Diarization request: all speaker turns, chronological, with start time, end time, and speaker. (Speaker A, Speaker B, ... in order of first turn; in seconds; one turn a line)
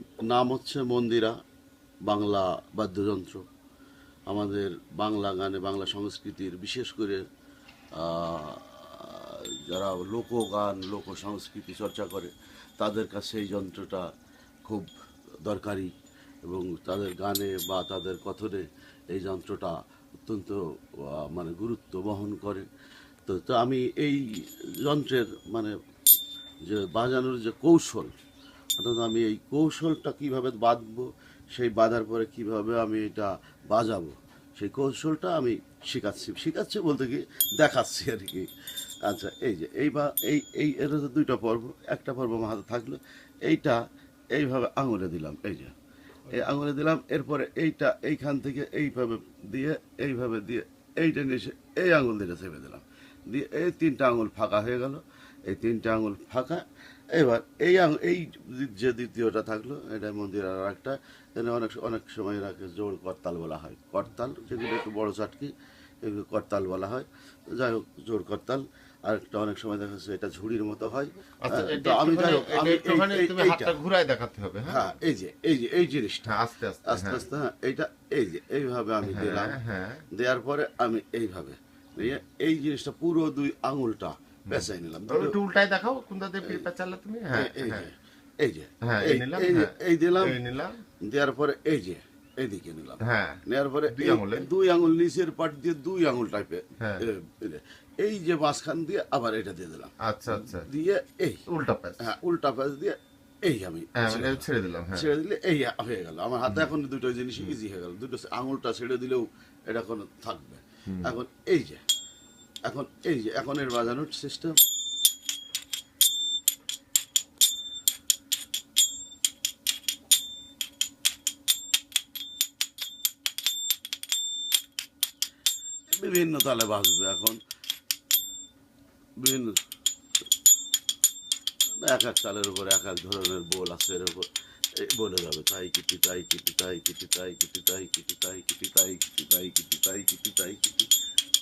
Speaker A: 0.2-1.3
Speaker A: 2.0-3.4
Speaker A: 4.3-7.2
Speaker A: 8.0-14.1
Speaker A: 14.7-14.9
Speaker A: 15.4-15.9
Speaker A: 16.4-22.6
Speaker A: 23.2-25.7
Speaker A: 26.6-28.1
Speaker A: 28.8-38.5
Speaker A: 39.0-43.8
Speaker A: 44.3-45.7
Speaker A: 46.3-65.5
Speaker A: 66.0-73.7
Speaker B: 71.4-74.9
Speaker A: 74.7-79.6
Speaker B: 76.2-77.2
Speaker B: 79.0-80.0
Speaker A: 80.1-85.3
Speaker B: 84.5-87.9
Speaker A: 87.3-90.3
Speaker B: 88.8-90.8
Speaker A: 91.0-101.4
Speaker B: 93.0-94.5
Speaker B: 100.0-100.7
Speaker B: 101.5-102.1
Speaker A: 102.0-111.8
Speaker B: 104.0-105.0
Speaker B: 110.9-111.1
Speaker A: 112.7-114.6
Speaker A: 125.9-127.4
Speaker A: 129.2-129.6
Speaker A: 131.8-134.3
Speaker A: 134.8-140.9